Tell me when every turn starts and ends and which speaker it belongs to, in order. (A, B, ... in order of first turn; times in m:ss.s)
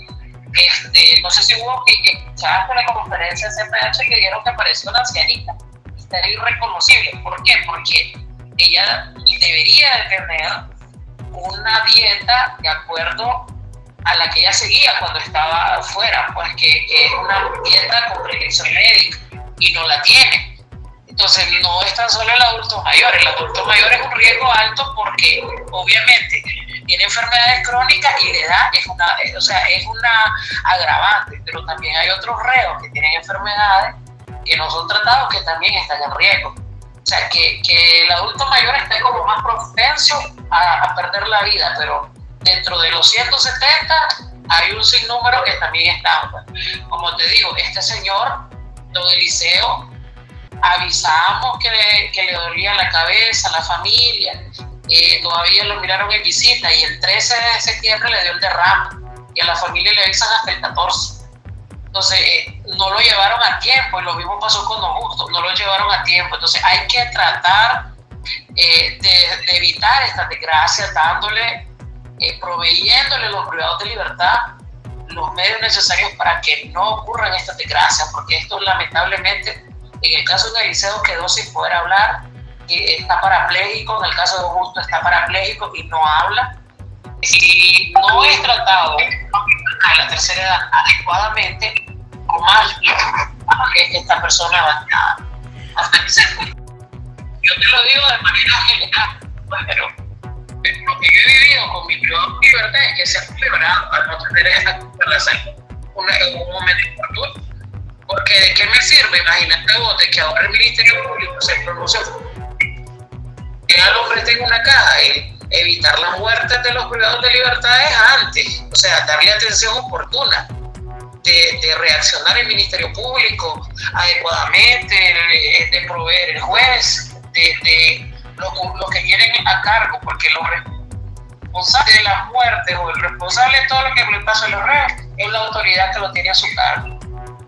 0:00.5-0:10.6 A
0:11.3-0:13.5 A
0:14.1-0:20.5 A
0:21.1-0:33.9 A
0:34.5-0:49.9 A
0:50.6-1:01.2 A
1:01.9-1:07.9 A
1:08.6-1:11.6 A
1:12.2-1:14.5 A
1:15.1-1:26.5 A
1:27.2-1:31.7 A
1:32.3-1:35.2 A
1:35.8-1:36.5 A
1:37.4-1:39.9 A
1:40.7-1:45.4 A
1:46.0-1:47.3 A
1:48.1-1:52.1 A
1:53.7-2:00.5 A
2:01.2-2:10.6 A
2:11.5-2:16.9 A